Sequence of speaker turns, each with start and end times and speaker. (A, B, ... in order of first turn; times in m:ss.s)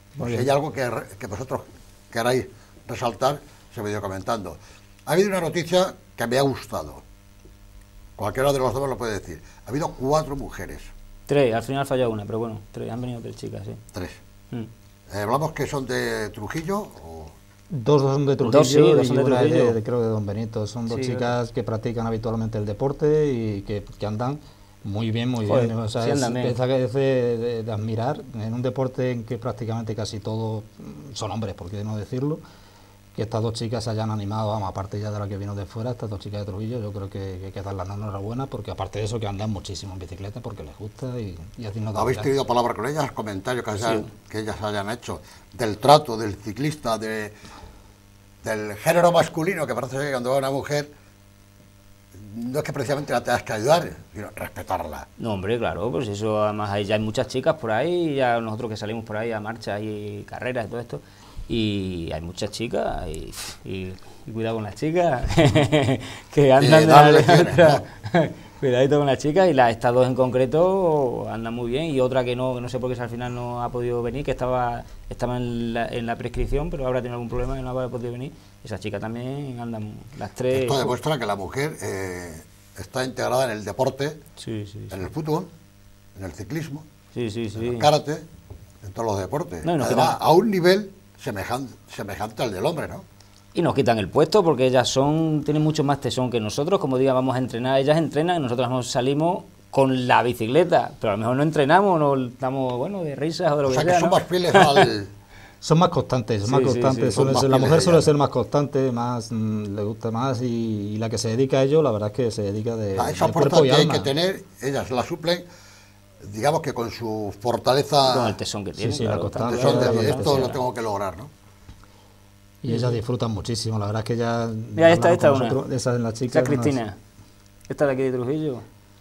0:00.2-0:00.5 A
0:00.2-0:07.0 B
0:08.2-0:10.9 B
0:11.3-0:13.8 C
0:13.9-0:14.2 B
0:15.1-0:17.3 B
0:17.7-0:32.4 A
0:18.4-0:19.8 C
0:20.9-0:21.3 C
0:25.5-0:26.6 C
0:33.1-0:42.3 A
0:41.9-0:47.3 B
0:43.8-0:44.1 C
0:48.4-0:50.9 B
0:52.2-0:55.0 B
0:55.2-1:20.9 C
1:06.6-1:07.8 B
1:20.5-1:24.2 B
1:24.4-1:25.0 C
1:24.9-1:25.5 B
1:26.2-1:26.8 B
1:27.1-1:27.9 C
1:27.5-1:28.2 B
1:28.8-1:33.0 B
1:29.6-1:30.2 C
1:33.5-1:44.9 C
1:43.6-1:45.1 B
1:45.6-1:54.1 A
1:46.4-1:47.3 C
1:47.1-1:48.1 B
1:53.0-1:55.4 B
1:56.2-1:58.4 B
1:58.0-2:00.6 C
1:58.8-2:00.5 A
1:59.4-2:01.3 B
2:02.6-2:06.8 A
2:02.7-2:03.0 C
2:04.8-2:05.6 C
2:06.3-2:07.0 C
2:07.7-2:08.6 C